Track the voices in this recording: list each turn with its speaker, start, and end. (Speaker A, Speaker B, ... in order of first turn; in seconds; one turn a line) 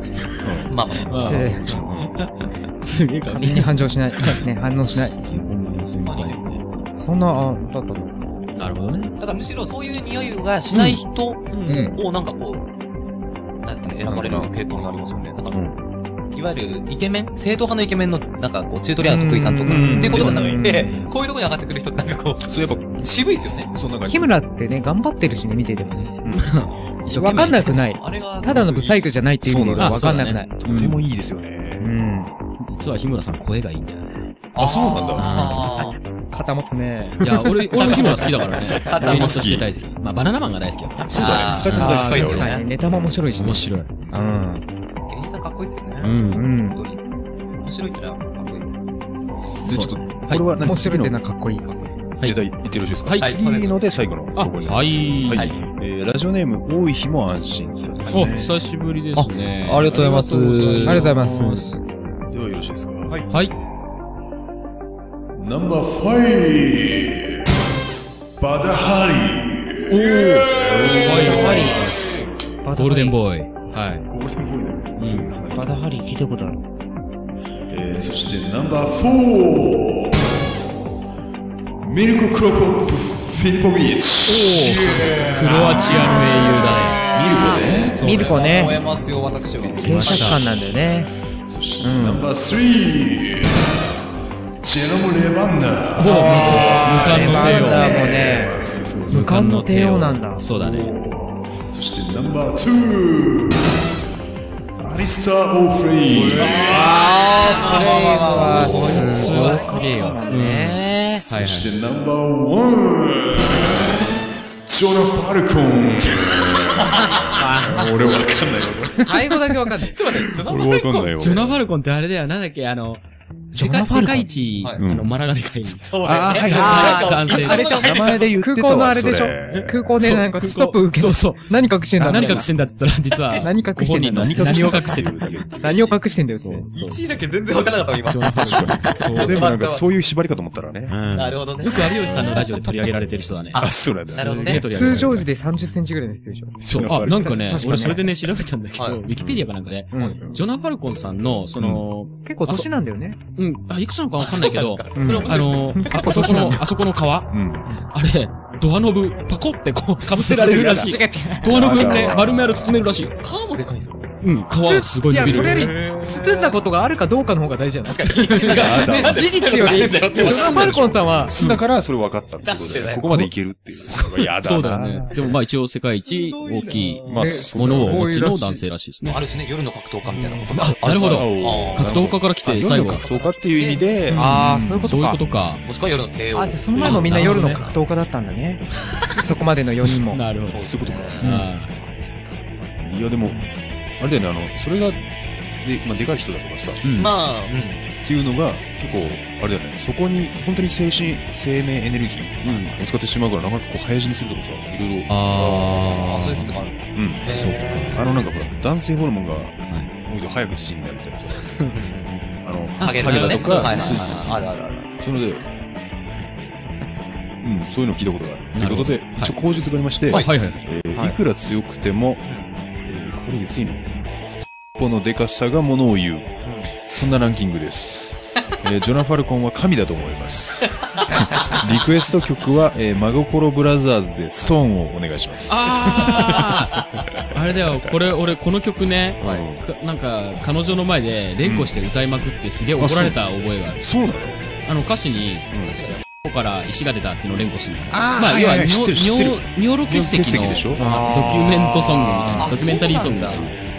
Speaker A: 0.4-0.8
Speaker B: 0.7-1.1
Speaker C: 1.1-4.4
Speaker D: 1.2-1.8
Speaker A: 1.3-2.2
Speaker D: 3.3-5.2
Speaker C: 5.2-6.6
Speaker B: 6.0-6.8
Speaker D: 7.0-8.4
Speaker C: 8.5-9.1
Speaker B: 9.2-12.7
Speaker C: 11.5-11.9
Speaker A: 11.7-12.0
Speaker B: 13.6-15.7
Speaker A: 14.0-14.5
Speaker A: 15.5-15.8
Speaker B: 16.3-23.7
Speaker D: 19.0-21.0
Speaker A: 19.6-20.8
Speaker A: 22.4-24.4
Speaker D: 24.0-26.1
Speaker B: 25.9-26.2
Speaker A: 26.2-26.5
Speaker C: 26.3-27.8
Speaker D: 27.1-30.5
Speaker B: 28.0-29.1
Speaker A: 29.4-31.9
Speaker C: 29.8-31.0
Speaker D: 31.8-32.3
Speaker C: 32.6-34.3
Speaker B: 34.5-36.0
Speaker A: 34.5-35.6
Speaker C: 35.2-35.7
Speaker D: 35.8-37.2
Speaker C: 37.2-42.3
Speaker B: 37.8-39.6
Speaker A: 38.8-39.8
Speaker A: 41.1-42.6
Speaker B: 41.1-42.6
Speaker D: 41.8-44.6
Speaker C: 43.3-43.9
Speaker A: 44.0-44.3
Speaker B: 45.1-48.8
Speaker C: 46.0-46.5
Speaker D: 46.3-46.8
Speaker A: 49.6-51.2
Speaker C: 49.6-50.4
Speaker D: 50.6-52.0
Speaker C: 52.2-52.5
Speaker A: 52.2-58.6
Speaker C: 53.0-53.3
Speaker B: 53.2-53.8
Speaker C: 54.4-55.6
Speaker B: 55.3-55.6
Speaker C: 58.1-61.7
Speaker B: 59.1-61.1
Speaker D: 60.8-61.8
Speaker A: 62.2-63.2
Speaker A: 65.3-67.5
Speaker A: 68.4-72.3
Speaker C: 69.9-70.4
Speaker B: 70.2-72.1
Speaker D: 71.0-73.2
Speaker C: 71.1-71.6
Speaker C: 72.8-74.0
Speaker A: 74.0-75.8
Speaker C: 75.0-75.3
Speaker D: 75.5-76.6
Speaker A: 77.7-80.4
Speaker A: 81.8-88.1
Speaker D: 84.3-88.8
Speaker C: 85.2-87.0
Speaker B: 86.9-90.4
Speaker C: 87.9-88.6
Speaker A: 89.5-94.0
Speaker C: 89.8-90.4
Speaker D: 89.8-91.1
Speaker D: 91.8-92.3
Speaker A: 94.6-99.5
Speaker C: 96.0-98.2
Speaker D: 96.0-100.4
Speaker C: 99.1-100.9
Speaker A: 100.5-103.8
Speaker A: 104.8-107.4
Speaker B: 106.1-110.6
Speaker D: 106.3-111.2
Speaker C: 106.4-106.8
Speaker A: 108.1-114.1
Speaker C: 108.3-111.8
Speaker A: 114.7-119.5
Speaker B: 116.8-117.1
Speaker D: 117.4-117.9
Speaker D: 119.0-120.0
Speaker B: 119.8-121.1
Speaker A: 120.1-121.6
Speaker C: 121.2-125.9
Speaker D: 123.5-124.3
Speaker A: 124.8-125.1
Speaker B: 125.8-128.3
Speaker A: 126.0-130.0
Speaker C: 126.5-127.8
Speaker D: 126.5-132.5
Speaker C: 129.5-135.4
Speaker A: 131.9-132.5
Speaker D: 133.4-134.8
Speaker A: 134.0-135.9
Speaker B: 135.6-136.0
Speaker D: 135.6-136.7
Speaker C: 136.3-137.1
Speaker B: 136.7-139.8
Speaker C: 138.1-139.4
Speaker A: 138.3-141.0
Speaker C: 140.9-145.3
Speaker B: 141.1-142.4
Speaker A: 142.0-142.4
Speaker A: 143.5-145.2
Speaker B: 144.1-144.7
Speaker D: 144.5-148.0
Speaker A: 146.6-147.8
Speaker C: 146.7-152.7
Speaker A: 149.1-149.5
Speaker D: 149.9-150.2
Speaker A: 150.0-150.4
Speaker A: 151.6-151.8
Speaker D: 152.2-153.2
Speaker C: 153.3-157.3
Speaker B: 154.2-156.5
Speaker D: 154.9-156.6
Speaker A: 157.3-157.7
Speaker C: 157.9-163.1
Speaker D: 160.1-162.2
Speaker A: 160.4-162.9
Speaker B: 163.2-164.1
Speaker C: 164.2-165.8
Speaker D: 164.5-171.4
Speaker A: 165.2-166.0
Speaker B: 165.3-166.6
Speaker B: 167.8-170.8
Speaker A: 168.5-175.4
Speaker C: 171.3-171.6
Speaker B: 172.4-173.3
Speaker C: 174.4-179.2
Speaker B: 175.9-177.4
Speaker A: 177.1-178.2
Speaker D: 177.2-178.7
Speaker B: 179.0-182.1
Speaker A: 180.4-184.9
Speaker C: 180.5-183.1
Speaker B: 182.8-183.9
Speaker C: 184.1-185.6
Speaker D: 184.1-185.2
Speaker B: 185.6-187.8
Speaker D: 186.3-190.2
Speaker C: 186.7-187.6
Speaker C: 190.1-190.6
Speaker A: 190.5-191.4
Speaker B: 190.5-191.3
Speaker C: 191.2-191.7
Speaker A: 192.8-195.0
Speaker A: 195.6-196.8
Speaker C: 196.8-197.1
Speaker B: 196.9-197.8
Speaker A: 198.0-205.1
Speaker C: 202.4-202.8
Speaker C: 205.1-206.6
Speaker B: 205.3-207.9
Speaker A: 206.9-211.7
Speaker C: 207.2-208.0
Speaker B: 211.7-212.3
Speaker A: 212.4-215.4
Speaker C: 212.8-214.4
Speaker B: 212.8-214.9
Speaker A: 217.4-224.0
Speaker C: 218.5-219.4
Speaker C: 220.1-220.7
Speaker B: 222.2-222.5
Speaker A: 224.7-236.5
Speaker B: 226.4-226.7
Speaker B: 230.9-231.6
Speaker C: 235.5-243.8
Speaker A: 239.2-239.6
Speaker A: 241.4-241.8
Speaker A: 242.8-243.2
Speaker A: 243.8-244.6
Speaker C: 244.6-245.5
Speaker A: 245.5-245.8
Speaker B: 245.6-246.0
Speaker C: 246.1-253.5
Speaker A: 247.9-250.8
Speaker D: 250.8-252.5
Speaker B: 252.4-253.6